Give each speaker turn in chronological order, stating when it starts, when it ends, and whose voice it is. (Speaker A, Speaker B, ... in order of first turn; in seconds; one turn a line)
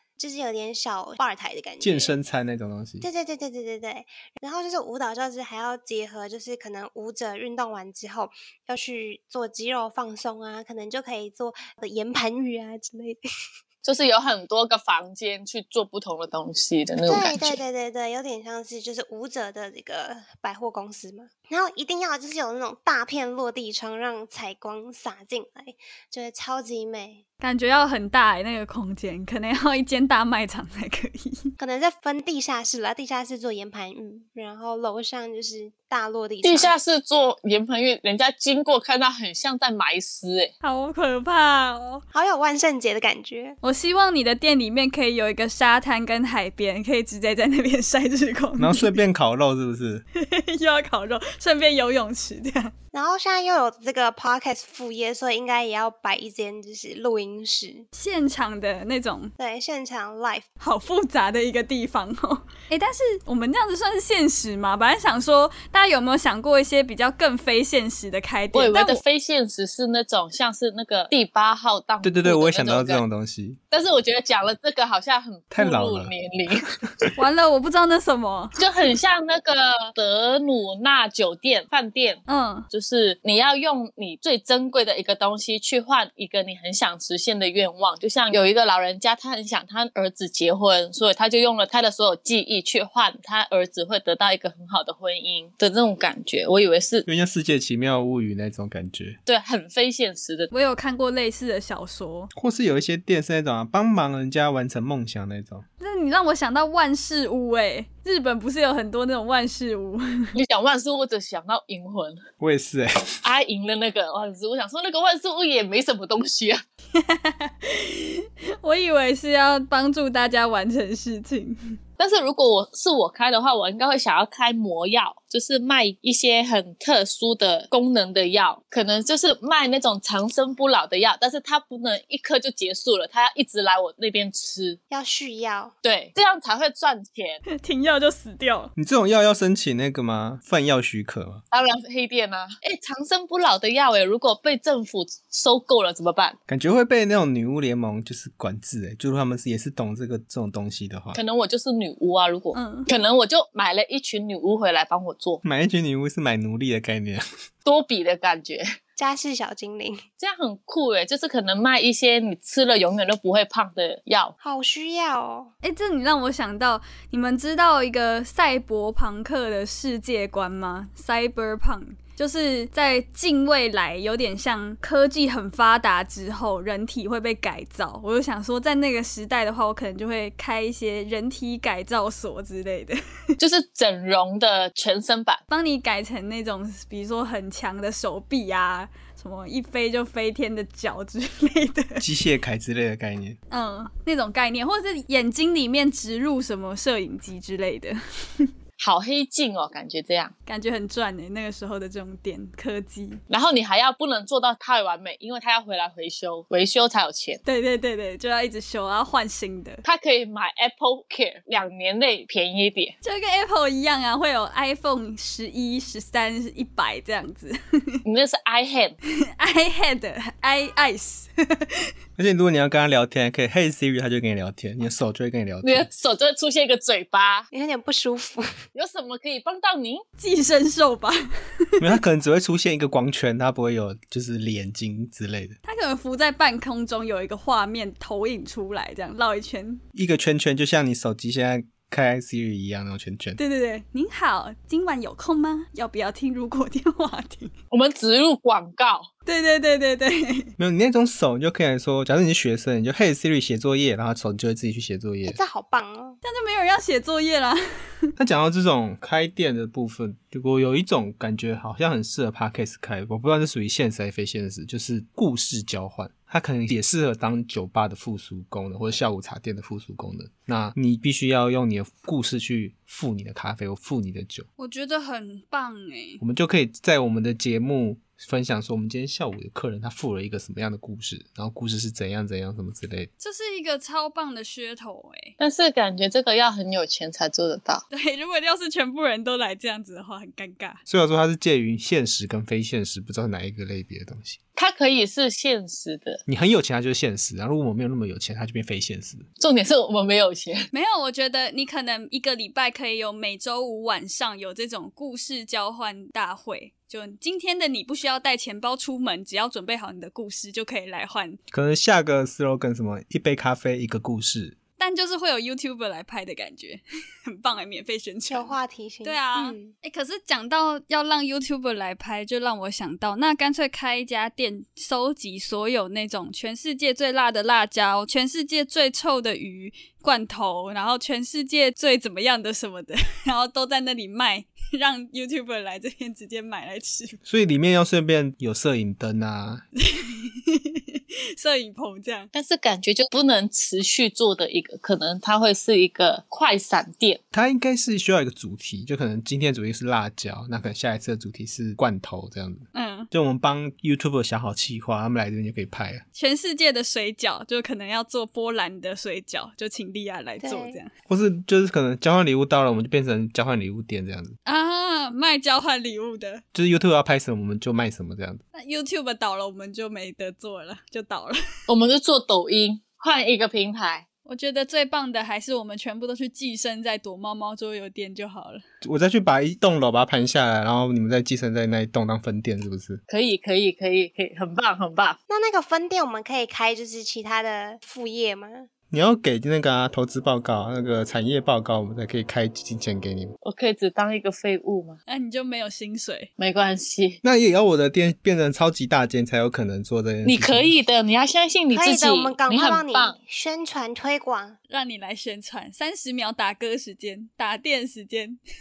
Speaker A: 0.2-2.1
Speaker B: 1.8-3.1
Speaker A: 3.0-13.2
Speaker C: 13.8-17.6
Speaker A: 17.1-27.2
Speaker D: 27.4-31.5
Speaker A: 31.6-36.7
Speaker C: 36.4-40.5
Speaker D: 40.6-42.0
Speaker A: 42.1-43.6
Speaker D: 43.6-48.9
Speaker B: 48.6-50.0
Speaker D: 50.1-52.7
Speaker A: 52.9-57.9
Speaker D: 57.9-59.3
Speaker A: 59.4-60.5
Speaker D: 60.6-69.0
Speaker C: 68.5-73.0
Speaker B: 72.0-73.6
Speaker C: 73.7-76.7
Speaker B: 75.5-76.1
Speaker D: 77.2-78.6
Speaker C: 78.6-97.0
Speaker D: 82.3-82.7
Speaker B: 97.0-99.2
Speaker C: 99.2-100.5
Speaker D: 100.5-102.3
Speaker B: 102.3-105.6
Speaker D: 105.8-110.3
Speaker C: 110.3-112.2
Speaker B: 112.4-113.1
Speaker C: 113.2-116.6
Speaker D: 117.0-121.6
Speaker C: 122.0-134.8
Speaker A: 134.9-135.7
Speaker C: 135.8-137.4
Speaker D: 137.5-138.7
Speaker B: 138.8-141.4
Speaker C: 141.5-146.3
Speaker B: 146.5-151.2
Speaker C: 151.1-155.4
Speaker D: 152.5-152.9
Speaker B: 155.4-157.2
Speaker C: 157.6-158.6
Speaker A: 159.0-160.0
Speaker C: 160.2-164.3
Speaker A: 164.4-165.5
Speaker D: 165.6-183.0
Speaker C: 183.4-185.4
Speaker D: 185.5-192.0
Speaker B: 192.0-193.4
Speaker D: 193.5-198.5
Speaker C: 198.8-200.3
Speaker D: 200.4-203.2
Speaker C: 203.3-207.4
Speaker D: 207.4-209.8
Speaker C: 209.8-212.9
Speaker D: 213.0-218.0
Speaker C: 218.0-218.9
Speaker D: 219.4-221.9
Speaker B: 222.2-225.9
Speaker C: 225.6-227.5
Speaker A: 227.5-228.5
Speaker C: 228.7-230.0
Speaker D: 230.2-231.8
Speaker B: 231.8-235.6
Speaker D: 235.6-239.8
Speaker B: 239.9-243.4
Speaker D: 243.4-247.5
Speaker C: 247.7-249.1
Speaker D: 249.2-250.5
Speaker B: 250.6-255.4
Speaker A: 255.2-256.2
Speaker D: 256.2-258.1
Speaker B: 258.1-274.4
Speaker D: 274.6-276.2
Speaker B: 276.2-283.1
Speaker D: 283.2-285.4
Speaker C: 285.4-287.8
Speaker D: 287.9-290.8
Speaker B: 290.9-294.4
Speaker C: 294.6-296.2
Speaker B: 296.3-299.2
Speaker C: 299.4-300.7
Speaker D: 300.7-311.4
Speaker B: 311.5-314.6
Speaker D: 314.8-337.2
Speaker A: 318.3-319.7
Speaker B: 337.2-339.6
Speaker D: 339.8-342.3
Speaker C: 342.3-347.2
Speaker B: 347.3-356.0
Speaker D: 352.7-353.1
Speaker D: 356.1-360.9
Speaker A: 360.4-360.8
Speaker B: 361.1-364.3
Speaker D: 364.4-366.4
Speaker B: 366.5-368.4
Speaker D: 368.5-371.4
Speaker C: 371.7-374.0
Speaker D: 374.2-378.6
Speaker B: 378.8-383.0
Speaker C: 383.1-385.2
Speaker A: 385.3-388.7
Speaker B: 388.9-393.3
Speaker C: 393.4-395.0
Speaker D: 395.1-396.3
Speaker C: 396.4-397.2
Speaker B: 397.2-400.7
Speaker C: 400.2-403.1
Speaker A: 401.7-404.6
Speaker D: 404.7-408.4